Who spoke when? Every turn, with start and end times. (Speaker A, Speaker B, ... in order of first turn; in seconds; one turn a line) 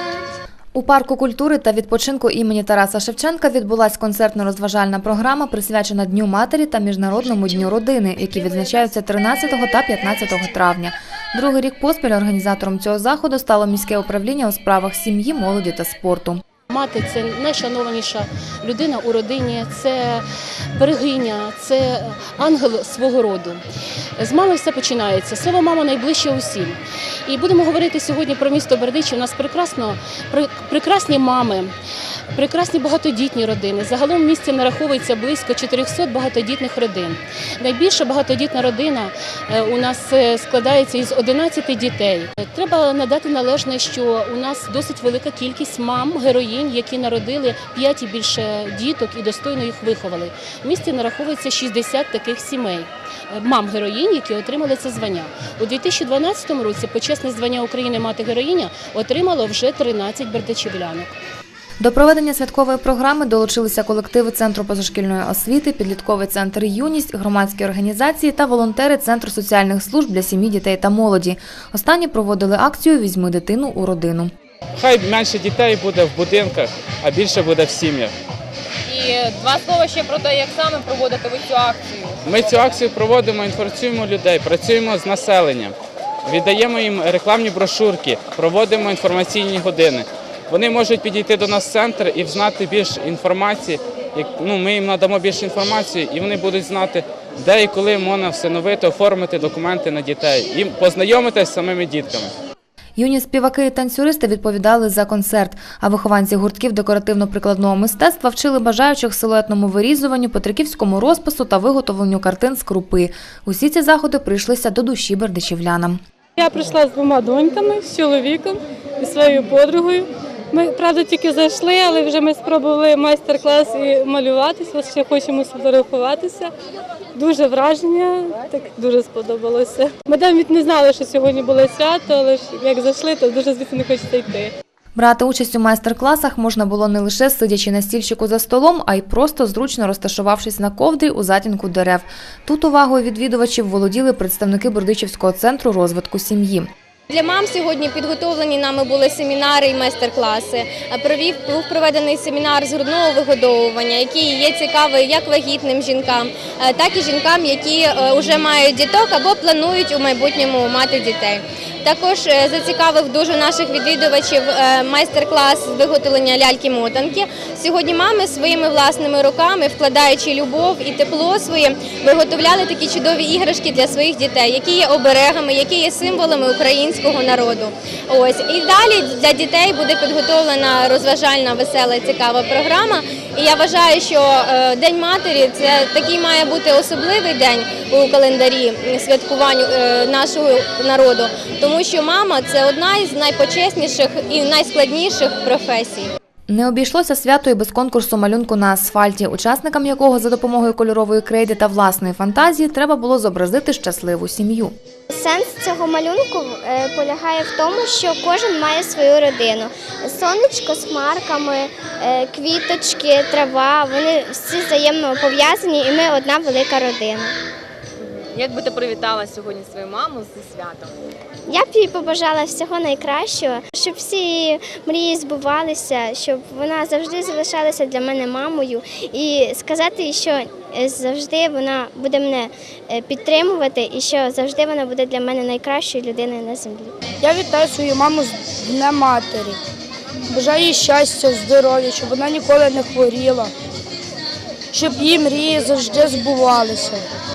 Speaker A: 0.7-16.4
Speaker B: 16.7-20.2
Speaker B: 20.8-23.6
Speaker B: 24.2-31.7
Speaker B: 32.3-61.1
Speaker A: 61.8-74.3
Speaker C: 74.8-78.1
Speaker D: 78.8-82.7
Speaker C: 82.2-102.3
Speaker A: 103.0-116.0
Speaker E: 116.4-126.5
Speaker E: 127.2-134.5
Speaker A: 134.9-146.7
Speaker F: 147.1-196.1
Speaker A: 196.5-204.7
Speaker G: 205.1-217.3
Speaker D: 218.0-220.9
Speaker G: 221.5-236.9
Speaker H: 237.2-239.6
Speaker H: 240.3-243.5
Speaker H: 244.7-247.0